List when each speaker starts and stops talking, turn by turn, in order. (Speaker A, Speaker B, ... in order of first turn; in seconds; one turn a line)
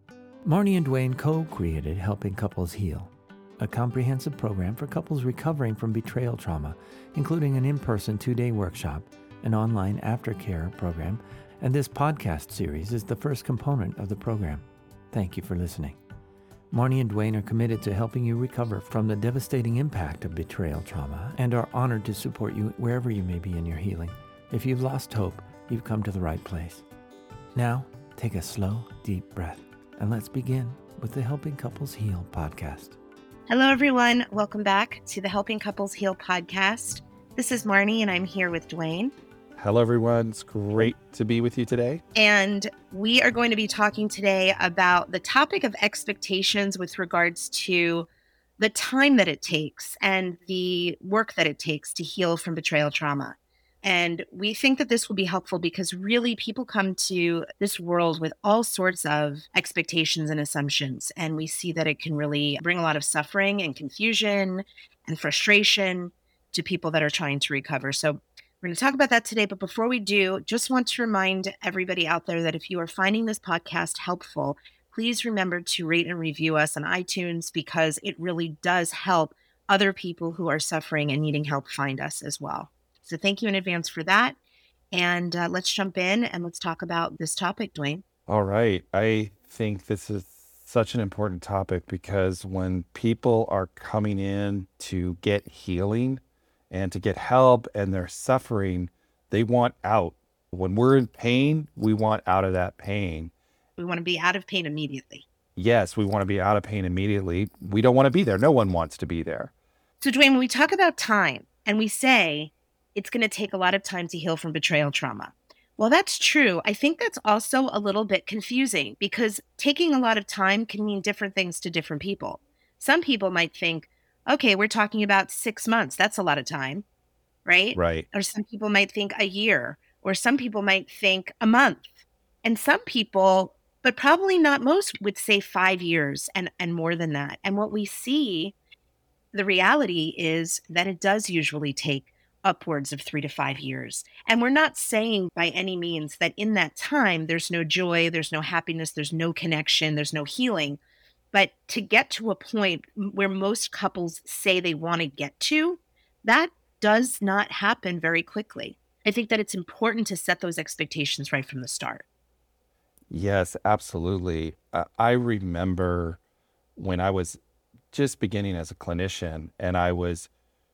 Speaker A: 0.5-16.0
Speaker A: 16.7-26.8
Speaker A: 27.6-33.0
Speaker B: 33.5-39.1
Speaker C: 39.6-42.0
Speaker B: 42.1-48.1
Speaker B: 48.6-84.4
Speaker B: 84.9-88.0
Speaker C: 88.3-103.3
Speaker B: 103.8-105.2
Speaker C: 105.5-109.5
Speaker B: 110.0-126.8
Speaker B: 127.5-138.5
Speaker C: 127.8-128.1
Speaker B: 139.3-150.8
Speaker B: 151.3-162.0
Speaker C: 163.1-166.2
Speaker C: 166.8-167.4
Speaker C: 167.9-170.3